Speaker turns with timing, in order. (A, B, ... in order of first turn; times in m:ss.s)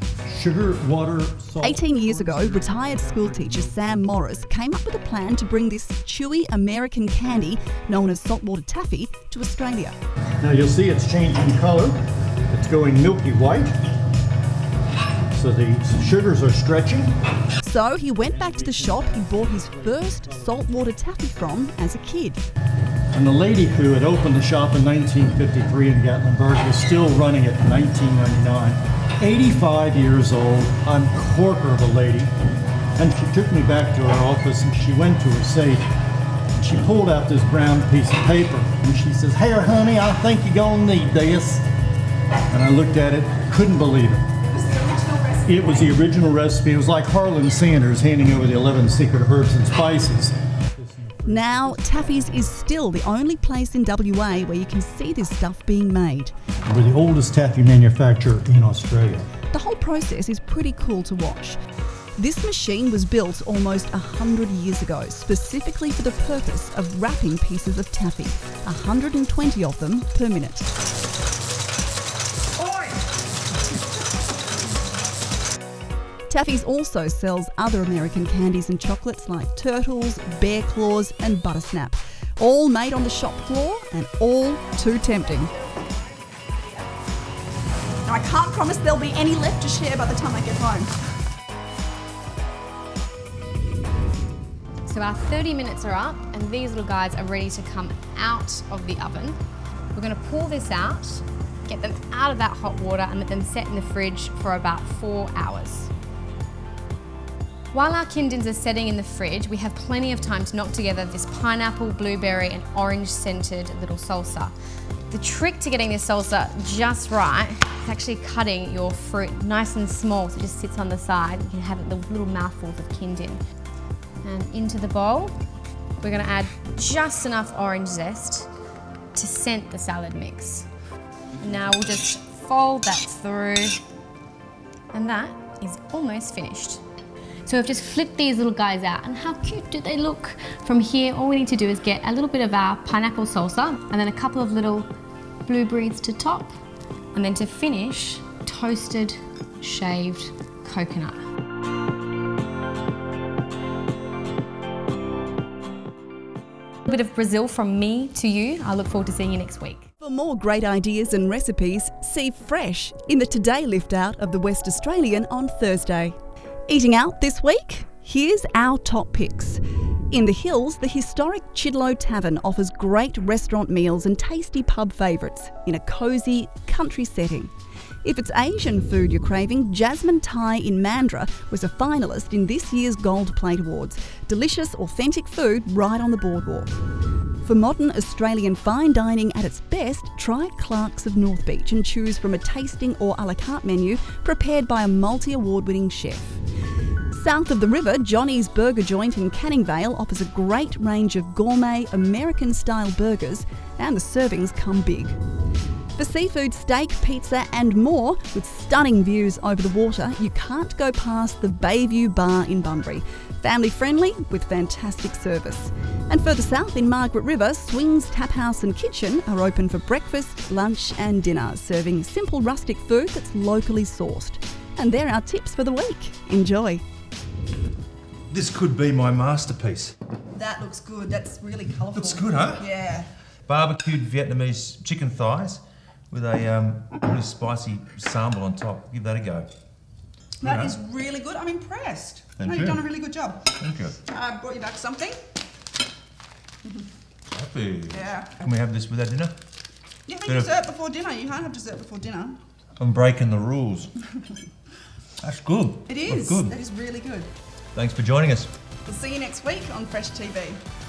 0:00.2-0:04.4 A
0:01.6-0:10.0 B
0:10.4-0:12.0 A
0:12.5-0:13.7 A
0:15.3-0:17.1 A
0:17.6-0:22.4 B
0:18.1-0:20.7 A
0:23.1-0:32.3 A
0:33.0-0:35.8 A
0:36.6-0:41.6 A
0:42.5-0:44.3 A
0:44.6-0:45.9 B
0:45.4-0:50.3 A
0:51.2-0:52.2 A
0:51.2-0:56.3 B
0:56.7-0:59.3 A
0:59.5-1:01.6 B
1:02.2-1:10.7 B
1:16.3-1:25.5 B
1:28.0-1:30.9 B
1:34.9-1:39.4 C
1:39.9-1:45.9 C
1:47.7-1:54.5 C
1:55.1-2:03.4 C
2:04.2-2:05.3 C
2:06.0-2:08.5 C
2:09.1-2:10.7 C
2:11.4-2:13.8 C
2:14.9-2:16.8 C
2:17.4-2:24.9 C
2:25.4-2:26.5 C
2:27.1-2:31.2 C
2:36.9-2:39.9 C
2:40.0-2:46.2 B
2:46.7-2:57.5 B
2:58.0-3:06.8 B
3:07.4-3:16.4 B
3:17.1-3:25.2 B
3:26.0-3:46.8 B
3:48.3-3:49.9 D
3:50.4-3:53.0 B
3:51.9-3:52.7 D
3:53.5-3:59.5 D
4:00.4-4:00.8 D
4:00.4-4:03.4 B
4:02.4-4:02.8 D
4:03.6-4:04.0 D
4:04.1-4:05.2 B
4:07.3-4:09.3 D
4:07.9-4:08.3 B
4:10.1-4:12.4 B
4:10.2-4:10.5 D
4:12.8-4:13.9 D
4:15.2-4:16.6 D
4:15.9-4:17.3 B
4:17.7-4:18.5 D
4:18.8-4:20.6 B